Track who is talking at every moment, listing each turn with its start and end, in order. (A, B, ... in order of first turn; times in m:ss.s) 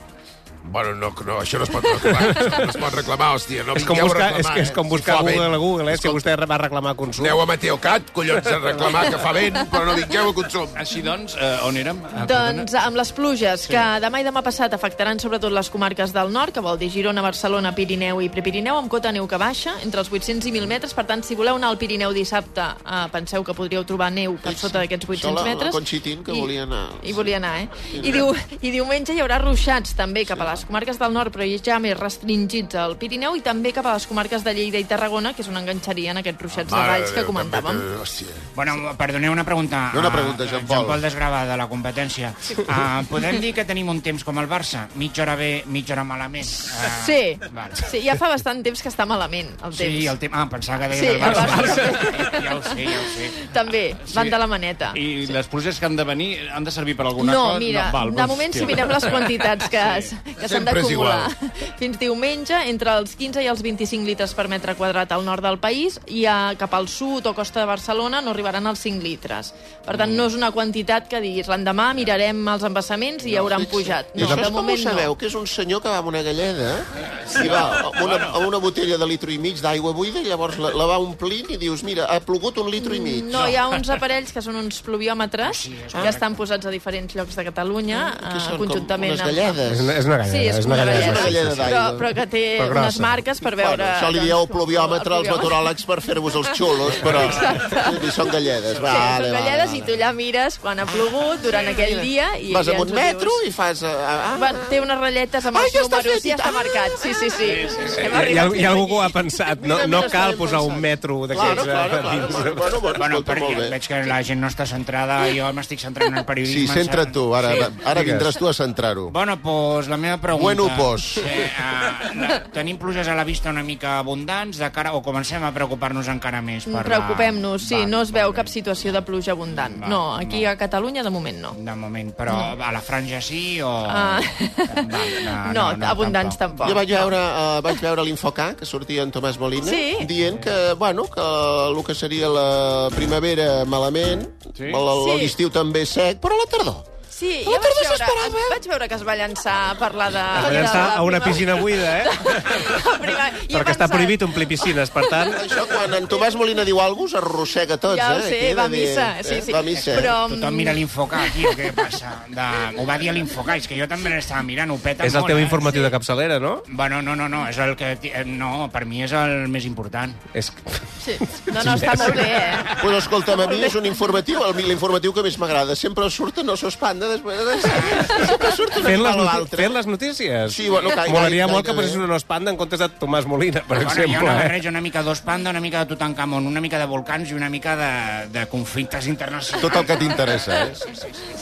0:00.6-0:06.2 A
0:02.0-0:02.3 B
0:03.7-0:07.4 B
0:07.2-0:10.8 A
0:10.8-0:12.7 C
0:12.1-0:37.8 D
0:24.4-0:27.3 E
0:27.9-0:28.3 E
0:30.3-0:30.6 E
0:36.5-0:38.4 A
0:38.5-0:47.8 F
0:39.9-0:41.0 E
0:46.9-0:50.1 D
0:49.7-0:53.5 F
0:50.9-0:55.3 D
0:51.2-0:52.3 C
0:54.0-0:54.4 C
0:54.9-1:00.2 C
0:57.2-1:15.1 D
1:00.4-1:01.3 A
1:09.9-1:10.2 C
1:13.4-1:23.6 E
1:14.2-1:14.5 B
1:17.2-1:18.4 C
1:22.8-1:29.6 D
1:25.4-1:26.4 F
1:25.9-1:26.2 E
1:27.9-1:30.0 E
1:29.7-1:31.7 B
1:30.2-1:35.6 D
1:30.7-1:32.1 E
1:32.6-1:33.2 B
1:33.5-1:39.9 E
1:36.8-1:38.2 D
1:37.0-1:37.6 C
1:38.8-1:43.4 D
1:40.9-1:44.7 E
1:44.3-1:49.2 D
1:45.5-1:46.9 E
1:47.4-1:48.1 C
1:47.9-1:52.8 B
1:49.6-1:53.8 E
1:49.7-1:50.8 D
1:52.9-1:57.6 F
1:56.4-1:59.1 E
1:57.5-1:58.3 B
1:59.1-2:10.5 F
2:00.3-2:01.3 E
2:06.6-2:11.6 D
2:11.5-2:16.8 F
2:12.3-2:12.5 D
2:13.9-2:14.9 D
2:15.4-2:17.1 D
2:16.6-2:26.8 E
2:19.6-2:20.1 D
2:24.5-2:24.8 C
2:24.9-2:25.3 D
2:27.1-2:35.3 D
2:27.4-2:28.6 E
2:30.3-2:32.8 B
2:33.5-2:35.4 B
2:35.4-2:40.1 E
2:37.9-2:41.6 D
2:39.7-2:45.9 F
2:45.0-2:46.6 B
2:46.7-2:50.2 F
2:50.3-2:52.4 B
2:51.0-2:53.8 D
2:52.7-2:59.8 E
2:57.6-2:58.4 F
2:58.8-3:04.6 B
3:00.5-3:02.0 E
3:03.7-3:11.1 F
3:09.6-3:10.8 E